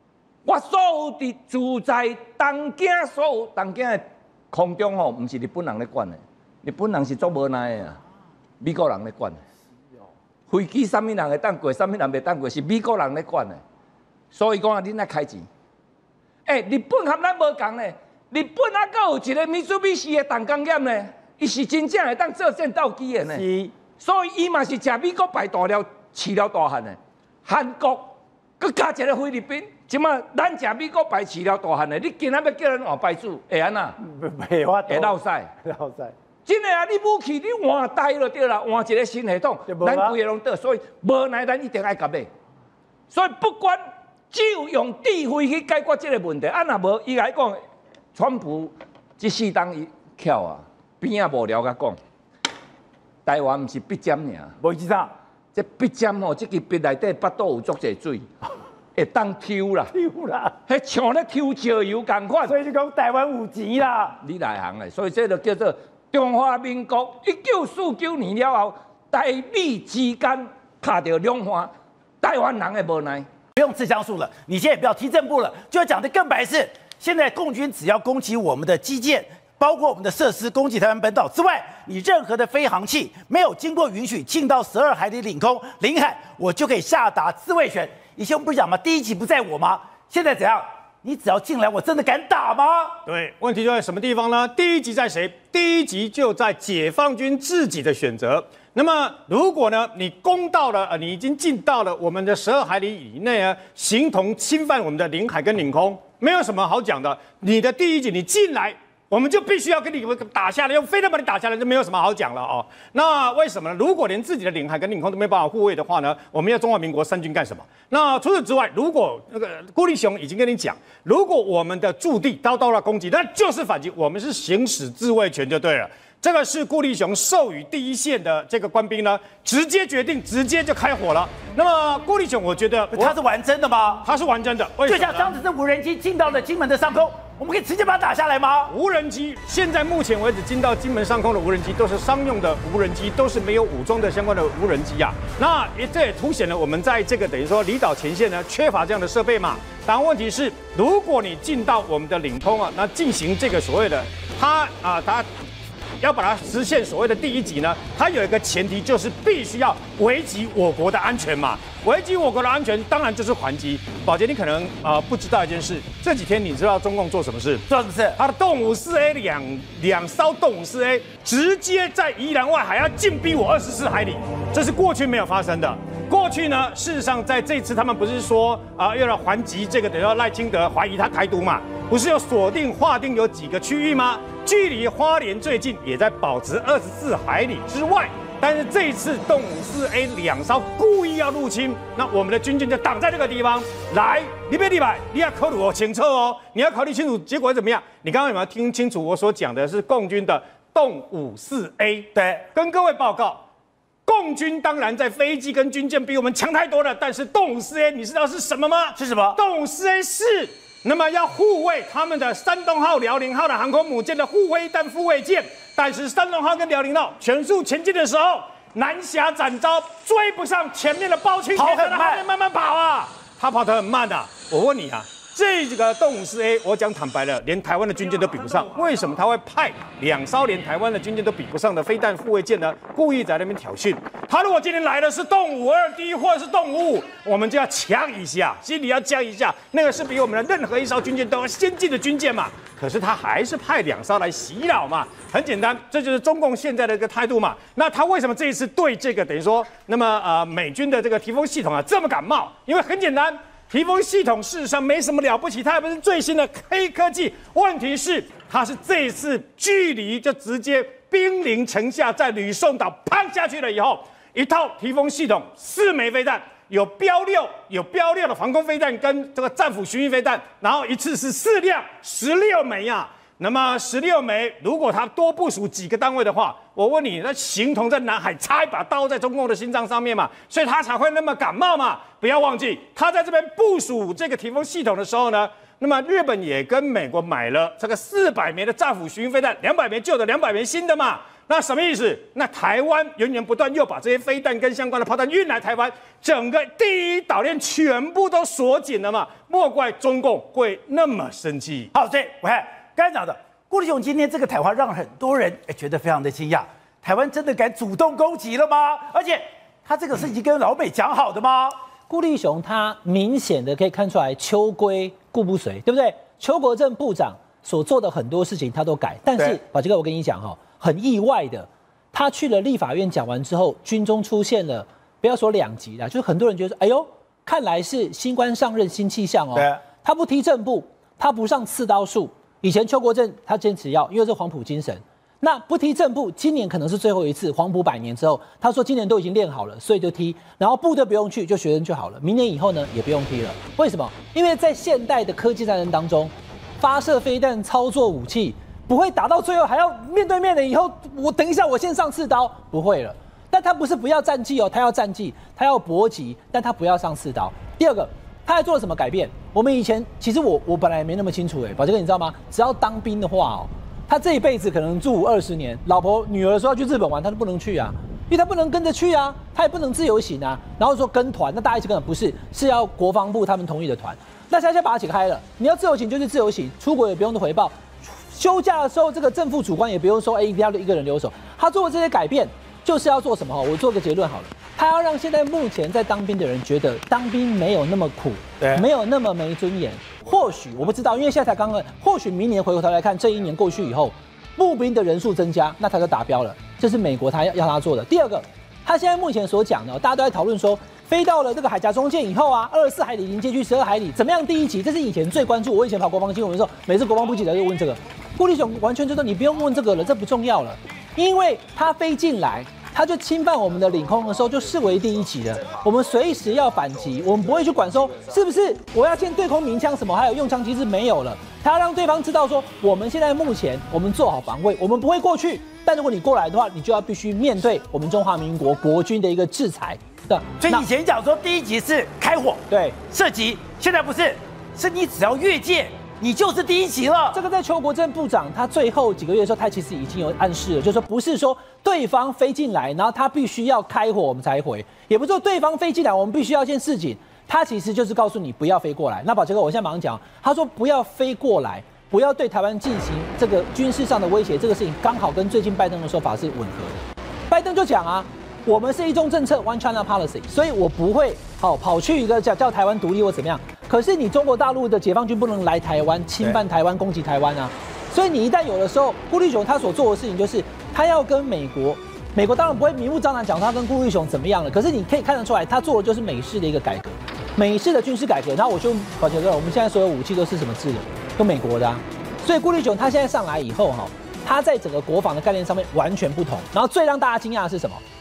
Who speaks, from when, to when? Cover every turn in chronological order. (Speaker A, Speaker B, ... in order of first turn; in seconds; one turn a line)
Speaker A: 0.4-8.0
Speaker A: 8.6-9.4
Speaker A: 10.5-13.6
Speaker A: 14.3-15.5
Speaker A: 16.4-34.0
Speaker B: 23.2-23.7
Speaker B: 34.0-36.1
Speaker A: 34.9-35.5
Speaker A: 36.5-42.3
Speaker B: 39.7-40.1
Speaker A: 43.1-43.8
Speaker A: 44.3-47.6
Speaker A: 48.1-52.0
Speaker A: 53.2-54.5
Speaker B: 54.6-55.1
Speaker A: 55.5-58.3
Speaker A: 58.9-59.9
Speaker B: 59.9-60.5
Speaker A: 60.7-62.5
Speaker B: 62.5-64.2
Speaker A: 64.2-73.3
Speaker B: 73.6-93.0
Speaker C: 93.0-133.2
Speaker B: 132.9-134.1
Speaker C: 134.0-135.4
Speaker B: 134.8-138.7
Speaker C: 138.7-155.3
Speaker C: 156.0-167.6
Speaker B: 167.7-168.2
Speaker C: 168.2-203.4
Speaker B: 202.1-202.4
Speaker C: 204.1-301.9
Speaker B: 208.9-209.4
Speaker B: 221.5-222.2
Speaker B: 301.9-311.8
Speaker D: 312.1-377.8
Speaker B: 329.5-329.8
Speaker D: 378.3-430.9
Speaker B: 430.6-437.4
Speaker D: 432.7-433.0
Speaker D: 437.3-488.0